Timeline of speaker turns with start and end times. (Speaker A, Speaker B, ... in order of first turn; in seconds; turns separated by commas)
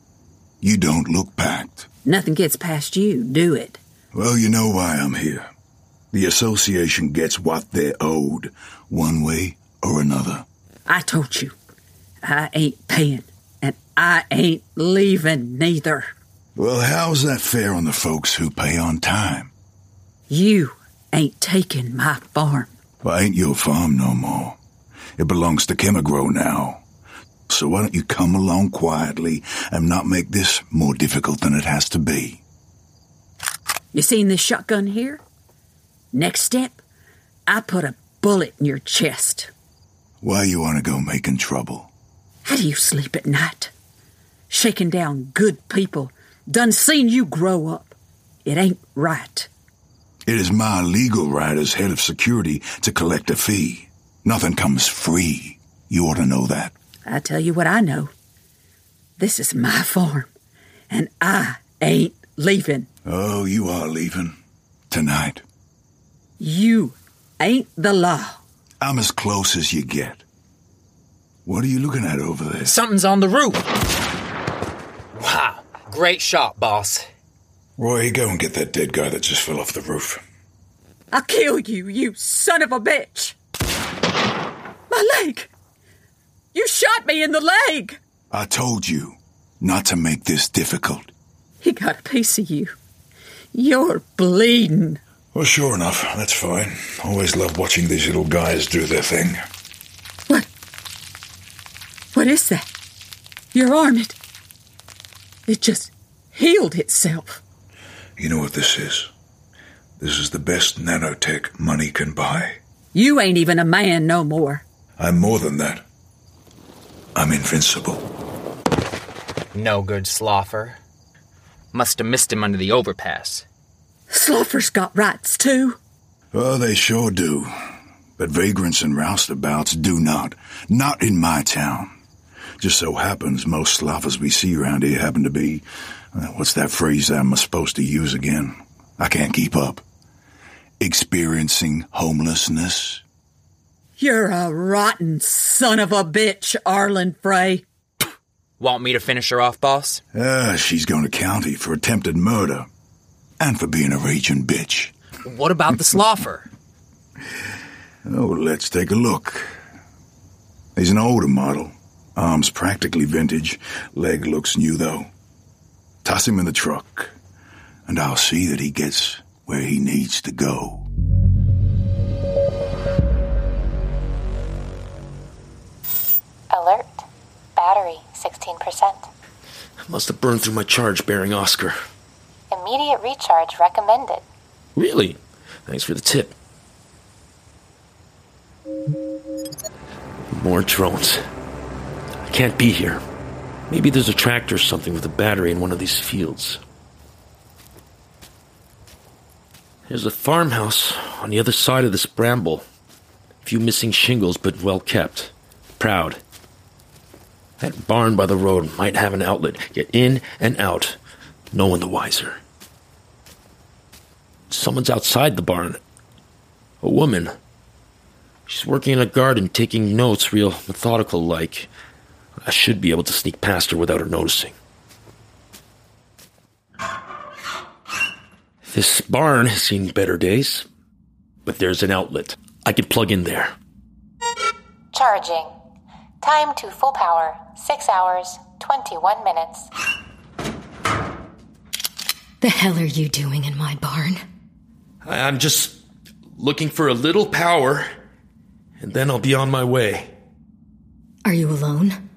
Speaker A: 0.6-1.9, Speaker B: 2.0-3.8, Speaker A: 4.1-5.5, Speaker A: 6.1-10.4, Speaker B: 10.8-11.5, Speaker B: 12.2-16.1, Speaker A: 16.6-19.5, Speaker B: 20.3-22.7, Speaker A: 23.0-24.6, Speaker A: 25.2-26.8, Speaker A: 27.5-32.4, Speaker B: 33.9-35.2, Speaker B: 36.1-36.8, Speaker B: 37.5-39.5, Speaker A: 40.2-41.9, Speaker B: 42.5-43.7, Speaker B: 44.5-47.9, Speaker B: 48.4-49.5, Speaker A: 50.2-56.7, Speaker B: 57.0-58.1, Speaker B: 59.2-60.3, Speaker B: 60.9-62.9, Speaker A: 63.0-64.3, Speaker A: 64.9-65.4, Speaker B: 66.4-68.4, Speaker A: 68.8-70.2, Speaker A: 71.5-72.7, Speaker C: 72.7-73.6, Speaker C: 75.2-77.1, Speaker A: 77.8-80.2, Speaker B: 81.1-83.3, Speaker B: 84.9-85.5, Speaker B: 86.5-88.0, Speaker A: 88.3-91.1, Speaker B: 91.6-92.7, Speaker B: 93.5-95.0, Speaker A: 95.3-99.4, Speaker B: 102.1-102.6, Speaker B: 103.5-104.2, Speaker B: 105.5-107.4, Speaker A: 108.2-109.1, Speaker A: 110.0-112.6, Speaker B: 112.9-114.6, Speaker A: 115.0-115.8, Speaker A: 117.2-118.0, Speaker C: 119.5-120.8, Speaker C: 121.7-123.4, Speaker B: 124.1-125.8, Speaker A: 126.3-127.5, Speaker A: 128.2-131.9, Speaker A: 132.6-139.8, Speaker A: 140.8-143.0, Speaker B: 144.0-147.6, Speaker C: 148.6-150.0, Speaker A: 150.1-152.7, Speaker A: 153.4-154.9, Speaker C: 155.2-156.5, Speaker A: 158.1-159.5, Speaker A: 160.8-165.1, Speaker A: 166.0-167.1, Speaker A: 167.9-170.9, Speaker D: 176.5-179.1, Speaker E: 179.8-181.7, Speaker D: 182.5-184.2, Speaker E: 184.8-186.3, Speaker E: 190.3-191.2, Speaker E: 192.3-193.0, Speaker E: 193.7-196.6, Speaker E: 199.9-202.6, Speaker E: 203.4-206.2, Speaker E: 207.6-211.0, Speaker E: 211.5-212.4, Speaker E: 214.5-215.8, Speaker E: 216.8-217.3, Speaker E: 218.5-221.7, Speaker E: 222.4-224.5, Speaker E: 228.7-230.7, Speaker E: 231.4-233.5, Speaker D: 234.9-235.5, Speaker D: 236.2-239.7, Speaker F: 242.4-244.2, Speaker E: 245.0-245.8, Speaker E: 246.4-247.8, Speaker E: 248.8-250.1, Speaker F: 251.2-252.0